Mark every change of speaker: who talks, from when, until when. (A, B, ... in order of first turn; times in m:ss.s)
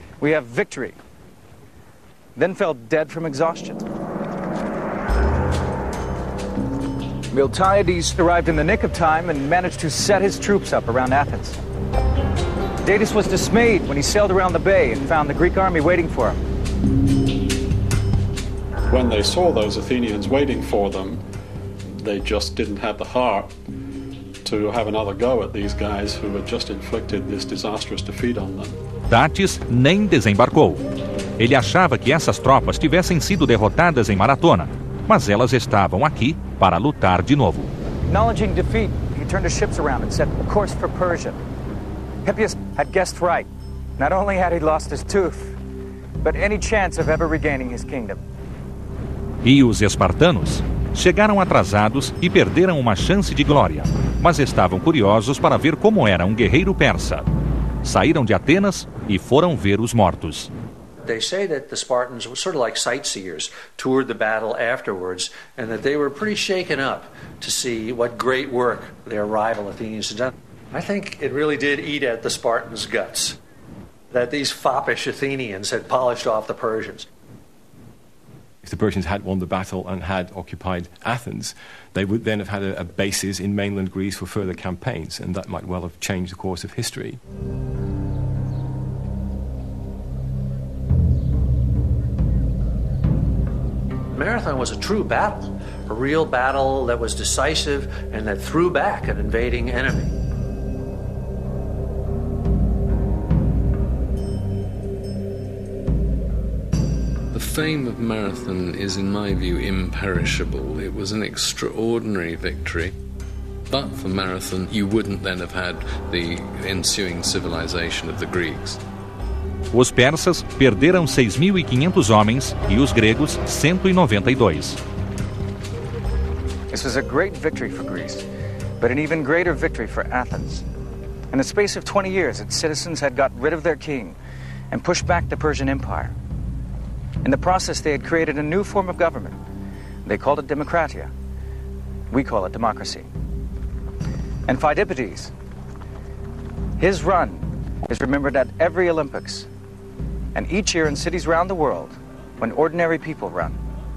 0:00.2-0:01.0 A
0:02.4-0:03.8 A
0:07.3-0:11.6 A
0:12.8-0:16.4 A
0:18.9-0:21.2 B
0:21.9-0:23.5 B
0:24.4-0:28.8 B
0:29.1-0:30.8 C
0:31.4-0:37.7 C
0:38.0-0:41.4 A
0:42.2-0:45.6 A
0:46.2-0:48.2 A
0:49.4-0:57.3 C
0:57.8-1:00.5 C
1:01.0-1:13.4 D
1:14.1-1:17.1 D
1:18.6-1:27.2 E
1:34.1-1:40.1 D
1:47.3-1:52.9 F
1:53.7-1:58.8 F
1:59.7-2:04.8 C
2:06.7-2:08.2 A
2:08.8-2:10.6 A
2:11.3-2:14.2 A
2:14.7-2:16.1 A
2:17.2-2:19.4 A
2:20.0-2:21.1 A
2:22.1-2:23.1 A
2:24.5-2:25.3 A
2:26.8-2:29.5 A
2:30.3-2:33.6 A